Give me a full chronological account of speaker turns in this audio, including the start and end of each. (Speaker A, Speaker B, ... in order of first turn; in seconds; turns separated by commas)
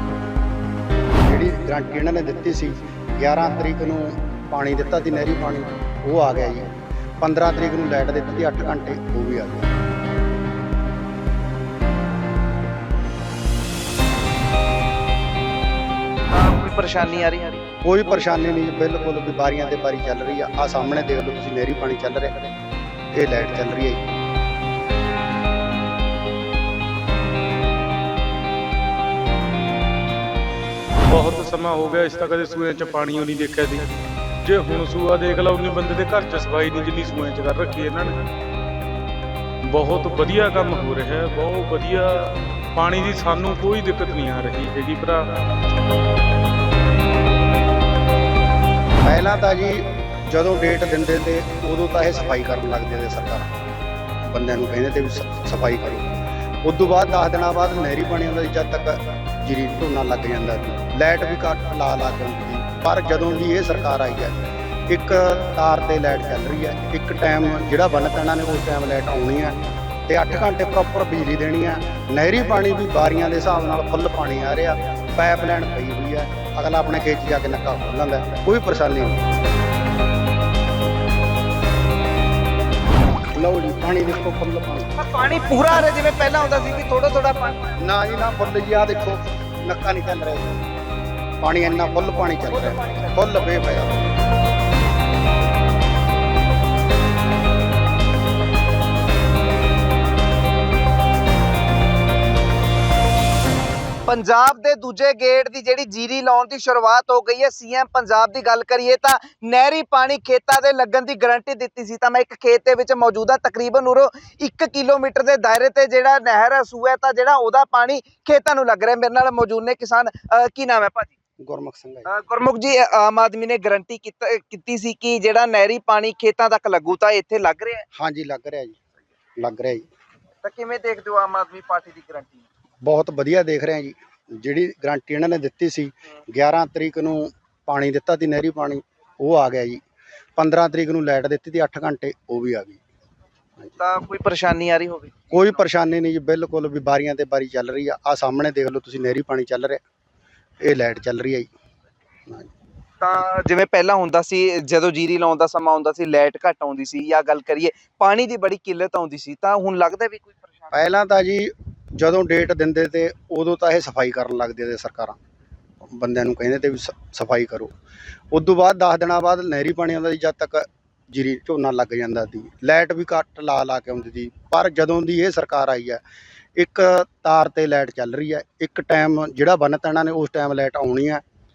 Speaker A: 1.2-9.7, Speaker B: 16.3-17.6, Speaker A: 17.8-22.5, Speaker A: 23.1-24.0, Speaker C: 31.1-38.2, Speaker C: 39.6-45.3, Speaker A: 49.0-53.5, Speaker A: 54.3-56.1, Speaker A: 56.6-79.2, Speaker A: 83.3-84.9, Speaker B: 85.0-87.7, Speaker A: 87.8-90.5, Speaker A: 91.4-94.0, Speaker B: 92.3-93.2, Speaker B: 104.0-121.1, Speaker A: 121.4-122.1, Speaker B: 122.1-127.8, Speaker A: 127.9-128.8, Speaker A: 129.4-129.8, Speaker B: 130.4-132.4, Speaker A: 132.8-139.8, Speaker A: 140.4-142.8, Speaker B: 143.8-145.3, Speaker A: 145.3-149.8, Speaker A: 150.6-151.5, Speaker B: 153.0-160.7, Speaker A: 160.7-165.2, Speaker A: 165.9-167.7, Speaker A: 168.3-176.0, Speaker A: 176.6-181.2